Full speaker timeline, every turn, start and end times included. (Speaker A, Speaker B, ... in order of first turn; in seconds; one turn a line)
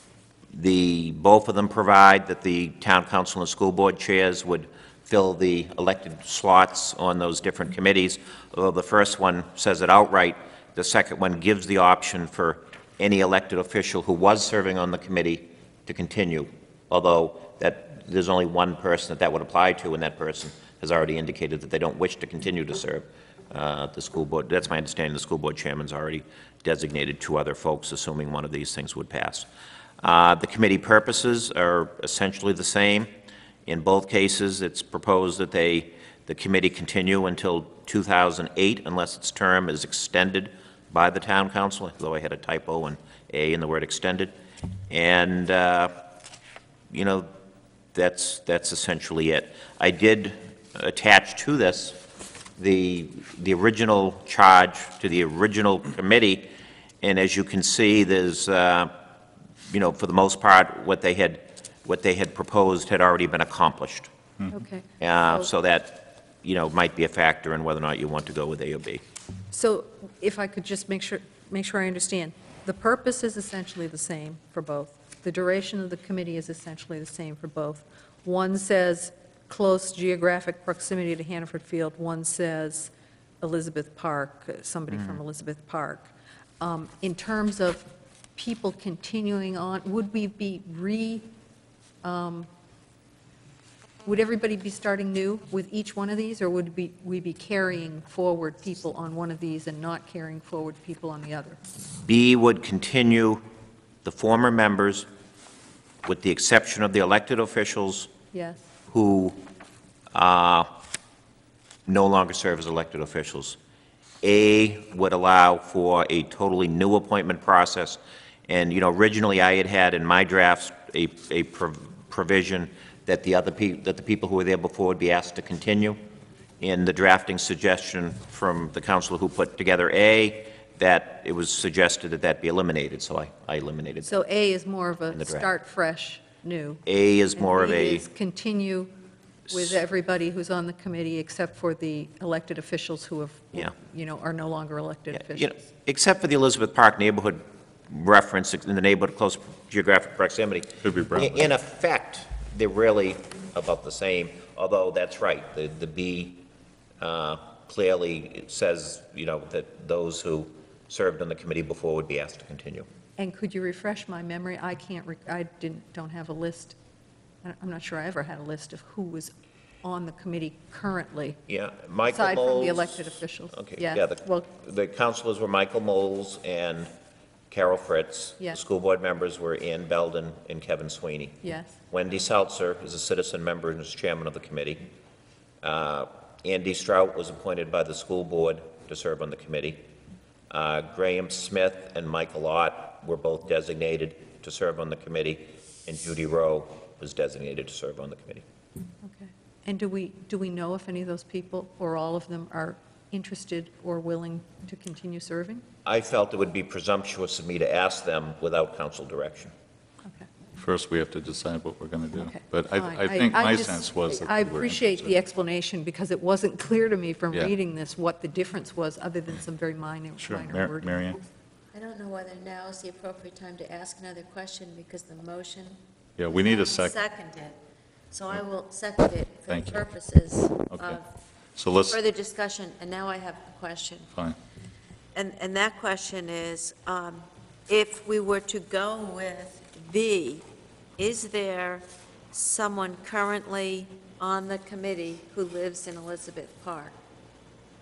Speaker A: 0.5-29.5
Speaker A: 30.0-33.1
Speaker A: 33.6-44.3
Speaker A: 44.9-45.9
Speaker A: 46.9-47.3
Speaker A: 47.9-52.0
Speaker A: 52.6-56.5
Speaker A: 57.0-58.9
Speaker A: 59.7-64.1
Speaker B: 64.5-65.5
Speaker A: 65.0-69.0
Speaker B: 69.5-86.1
Speaker B: 86.6-91.2
Speaker B: 92.0-92.5
Speaker B: 94.0-101.6
Speaker A: 102.0-103.4
Speaker A: 104.0-105.1
Speaker A: 106.0-108.1
Speaker B: 108.3-108.6
Speaker A: 108.9-109.3
Speaker A: 110.1-110.7
Speaker A: 111.9-113.6
Speaker A: 114.2-126.0
Speaker A: 126.6-134.2
Speaker B: 134.0-136.8
Speaker A: 135.1-135.5
Speaker A: 136.8-138.0
Speaker B: 137.4-138.9
Speaker B: 139.5-145.6
Speaker A: 145.1-156.4
Speaker C: 150.8-151.5
Speaker A: 157.0-162.8
Speaker B: 163.2-166.8
Speaker B: 167.4-169.3
Speaker B: 169.8-171.4
Speaker A: 171.5-176.9
Speaker B: 172.1-174.4
Speaker A: 177.5-184.8
Speaker B: 181.4-181.7
Speaker A: 185.6-189.8
Speaker A: 190.5-198.4
Speaker B: 199.0-205.6
Speaker A: 205.8-209.5
Speaker C: 210.6-215.1
Speaker B: 212.2-220.9
Speaker C: 220.2-221.2
Speaker D: 221.7-225.8
Speaker C: 226.2-227.0
Speaker D: 226.4-227.6
Speaker D: 228.1-231.0
Speaker C: 229.5-229.8
Speaker C: 230.7-231.0
Speaker C: 231.6-232.0
Speaker D: 231.9-234.1
Speaker D: 235.1-240.4
Speaker D: 241.0-246.9